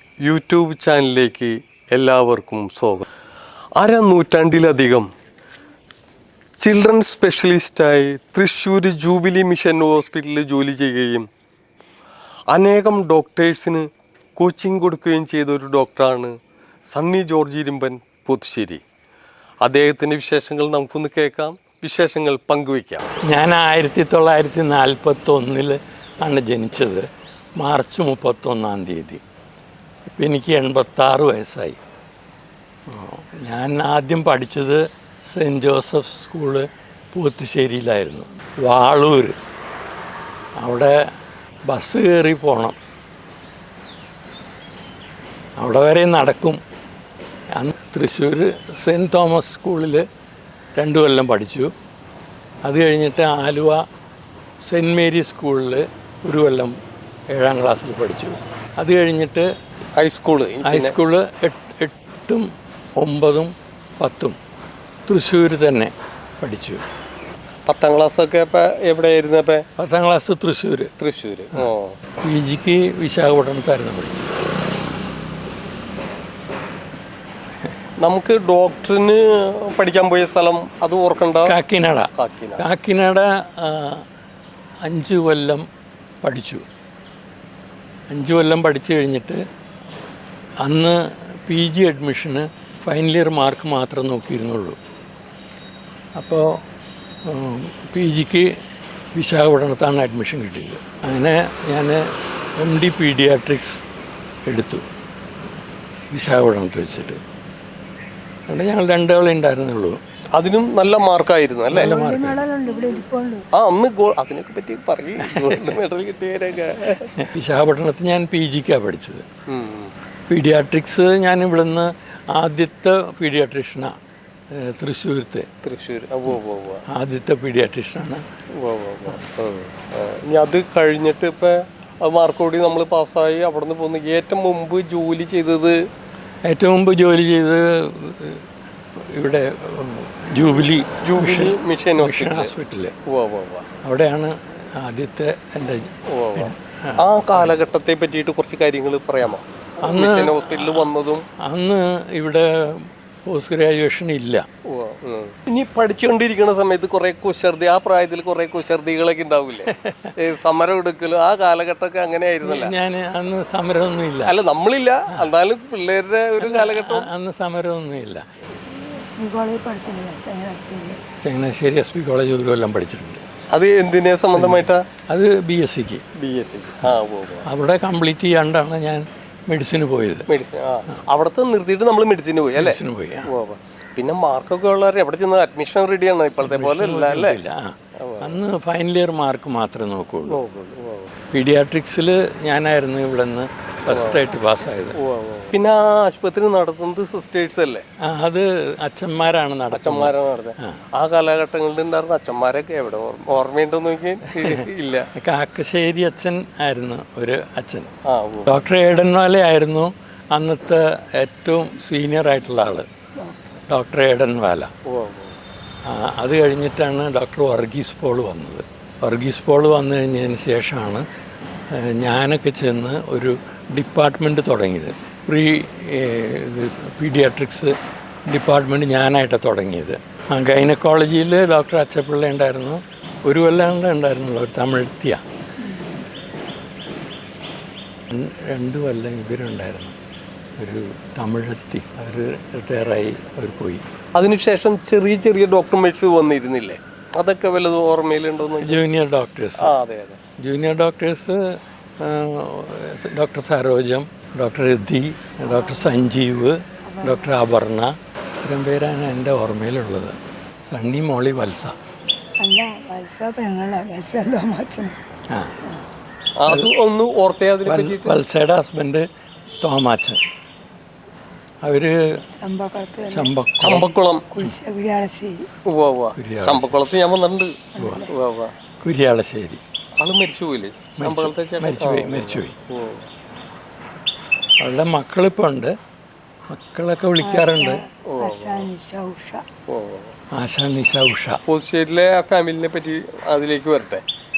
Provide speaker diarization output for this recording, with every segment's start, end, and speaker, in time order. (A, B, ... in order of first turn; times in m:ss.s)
0:00.2-0:03.1 A
0:03.8-0:05.1 A
0:06.6-0:11.3 A
0:12.5-0:13.9 A
0:14.4-0:16.3 A
0:16.9-0:18.8 A
0:19.6-0:23.1 A
0:23.3-0:27.1 B
0:27.6-0:29.2 B
0:30.2-0:31.8 B
0:32.9-0:39.4 B
0:40.6-0:41.0 B
0:41.7-0:42.8 B
0:45.6-0:46.6 B
0:47.6-0:50.0 B
0:50.8-0:51.7 B
0:52.6-0:53.8 B
0:54.6-0:56.8 B
0:57.3-0:59.5 B
1:00.0-1:00.9 A
1:00.7-1:04.4 B
1:05.1-1:06.8 B
1:07.7-1:09.6 A
1:09.8-1:10.9 B
1:11.0-1:12.0 A
1:12.2-1:14.3 B
1:18.0-1:21.5 A
1:21.5-1:22.1 B
1:22.2-1:22.6 A
1:22.6-1:24.0 B
1:24.8-1:25.7 B
1:26.2-1:26.6 B
1:28.1-1:29.4 B
1:30.6-1:31.0 B
1:31.5-1:34.8 B
1:36.2-1:36.5 B
1:37.3-1:38.6 B
1:39.2-1:42.0 B
1:42.6-1:43.8 B
1:44.5-1:44.8 B
1:46.1-1:47.2 B
1:48.5-1:50.0 B
1:50.4-1:51.9 A
1:51.7-1:52.4 B
1:51.7-1:53.4 C
1:53.5-1:57.1 A
1:57.2-1:59.2 B
1:59.5-1:59.9 A
2:00.3-2:04.0 B
2:04.6-2:05.5 B
2:05.6-2:06.8 A
2:06.9-2:08.2 B
2:08.6-2:15.8 A
2:16.5-2:18.4 B
2:19.1-2:22.9 B
2:21.0-2:22.5 A
2:23.1-2:23.7 A
2:23.8-2:27.5 B
2:26.1-2:31.2 A
2:29.8-2:30.9 B
2:31.4-2:34.4 B
2:34.7-2:42.8 A
2:42.4-2:44.3 B
2:44.3-2:47.1 A
2:46.4-2:48.3 B
2:48.7-2:51.0 C
2:51.2-2:53.2 B
2:53.5-2:54.8 A
2:54.3-2:56.0 B
2:56.2-2:57.5 A
2:57.5-3:00.3 B
3:00.3-3:07.4 A
3:02.6-3:03.3 B
3:06.4-3:10.4 B
3:08.0-3:08.4 A
3:10.3-3:11.1 A
3:11.3-3:15.0 B
3:13.9-3:14.3 A
3:15.0-3:17.8 A
3:18.0-3:20.8 B
3:19.7-3:25.1 A
3:25.2-3:27.9 B
3:28.1-3:28.5 A
3:28.5-3:32.9 B
3:33.2-3:33.6 C
3:33.7-3:34.7 B
3:34.9-3:35.4 A
3:35.9-3:41.0 B
3:41.8-3:47.7 B
3:48.3-3:55.2 B
3:55.6-3:56.0 C
3:58.1-3:59.9 B
4:00.6-4:03.8 B
4:04.2-4:08.8 A
4:08.6-4:09.7 B
4:09.6-4:10.2 A
4:10.4-4:11.4 B
4:12.0-4:17.9 B
4:15.4-4:16.0 C
4:16.9-4:17.3 C
4:18.5-4:20.2 B
4:20.7-4:21.8 B
4:22.4-4:25.0 C
4:26.4-4:28.2 A
4:27.7-4:29.0 B
4:29.6-4:30.2 B
4:31.6-4:32.0 B
4:32.4-4:33.3 C
4:33.1-4:33.9 B
4:33.6-4:34.2 A
4:34.3-4:35.5 C
4:35.7-4:37.5 A
4:36.2-4:36.9 B
4:37.8-4:38.1 C
4:37.8-4:38.0 B
4:38.1-4:38.5 A
4:38.8-4:39.6 B
4:40.0-4:43.1 A
4:41.0-4:42.6 B
4:44.6-4:45.7 B
4:46.5-4:47.8 B
4:47.2-4:49.4 C
4:48.1-4:48.7 A
4:49.7-4:50.2 A
4:50.3-4:51.4 B
4:51.5-4:54.0 A